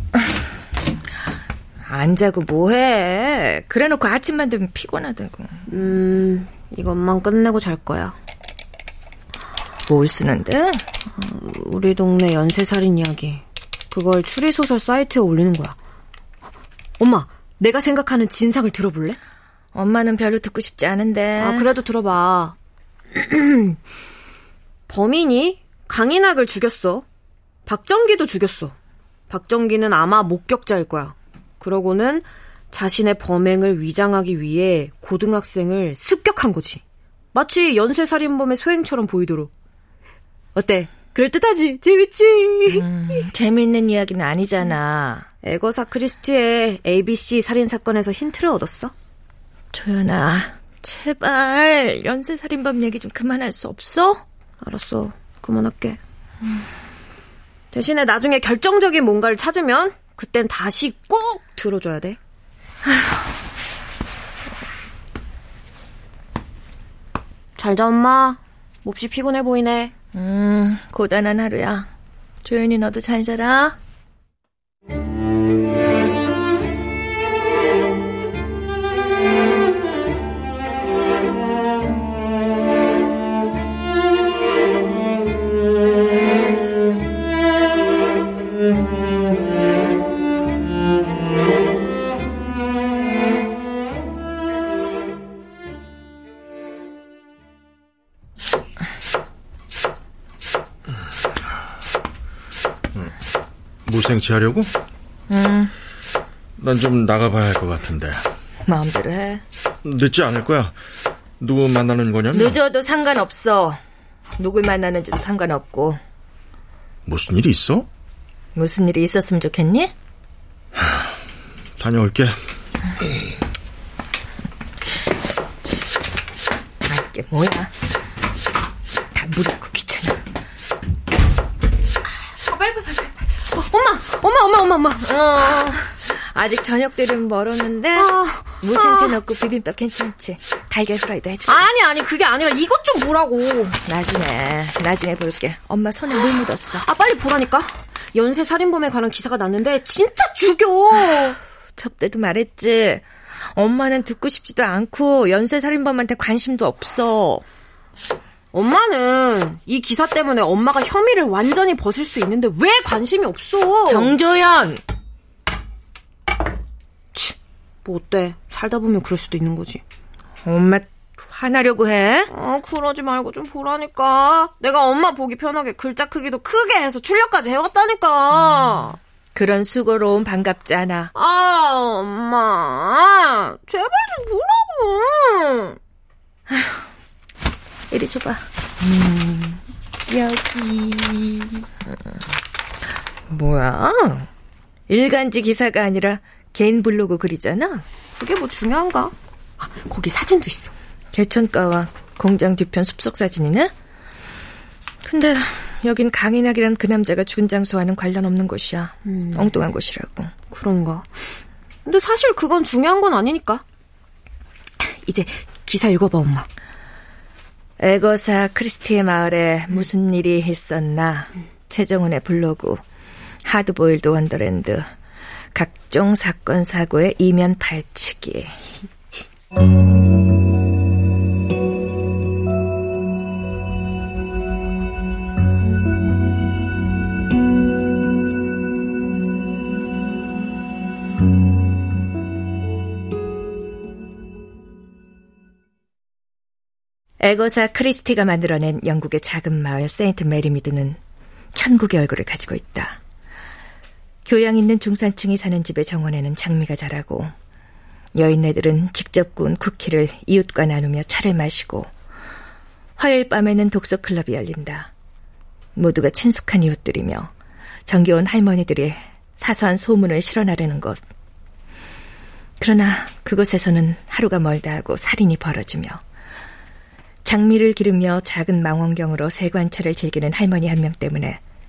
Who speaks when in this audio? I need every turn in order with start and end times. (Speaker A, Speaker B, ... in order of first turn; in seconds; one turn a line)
Speaker A: 1.9-5.7
Speaker B: 5.7-8.1
Speaker A: 9.9-10.8
Speaker B: 11.1-15.8
Speaker B: 17.0-19.2
Speaker A: 19.7-21.7
Speaker B: 21.4-22.5
Speaker B: 23.1-23.8
Speaker B: 24.9-27.0
Speaker B: 27.6-28.7
Speaker B: 29.3-36.8
Speaker B: 37.3-39.5
Speaker B: 40.5-42.8
Speaker A: 42.7-45.2
Speaker B: 45.4-48.9
Speaker A: 49.7-54.2
Speaker B: 54.6-56.0
Speaker B: 57.7-62.2
Speaker B: 67.6-69.9
Speaker A: 70.1-71.9
Speaker A: 72.4-73.8
Speaker C: 103.8-104.7
Speaker A: 105.3-105.7
Speaker C: 106.6-108.2
Speaker A: 108.7-109.4
Speaker C: 109.8-110.8
Speaker C: 111.4-112.6
Speaker A: 112.3-113.8
Speaker A: 114.4-116.0
Speaker C: 117.0-117.8
Speaker A: 118.5-119.9
Speaker C: 121.8-122.4
Speaker A: 126.8-127.7
Speaker A: 129.1-130.2
Speaker B: 132.3-135.2
Speaker A: 135.1-141.7
Speaker B: 137.9-139.2
Speaker B: 141.5-143.8
Speaker A: 143.8-146.9
Speaker B: 146.8-151.4
Speaker A: 151.8-157.4
Speaker B: 158.5-164.1
Speaker A: 163.8-164.8
Speaker B: 167.1-169.8
Speaker A: 170.4-172.3
Speaker B: 172.3-179.0
Speaker A: 179.3-181.1
Speaker B: 181.1-185.8
Speaker A: 186.5-186.8
Speaker A: 187.9-189.6
Speaker B: 190.1-191.4
Speaker A: 193.3-194.3
Speaker A: 194.9-197.8
Speaker B: 198.1-200.7
Speaker A: 201.1-203.7
Speaker A: 205.0-210.3
Speaker B: 209.1-209.6
Speaker B: 210.5-211.2
Speaker B: 211.8-213.6
Speaker B: 214.9-216.5
Speaker A: 217.8-222.8
Speaker A: 223.4-224.9
Speaker A: 225.5-228.7
Speaker A: 247.2-251.0
Speaker A: 251.5-253.0
Speaker A: 254.2-257.3
Speaker A: 258.1-261.9
Speaker A: 263.0-264.9
Speaker A: 265.7-267.3
Speaker A: 267.9-271.0
Speaker A: 272.6-276.0
Speaker A: 277.2-281.4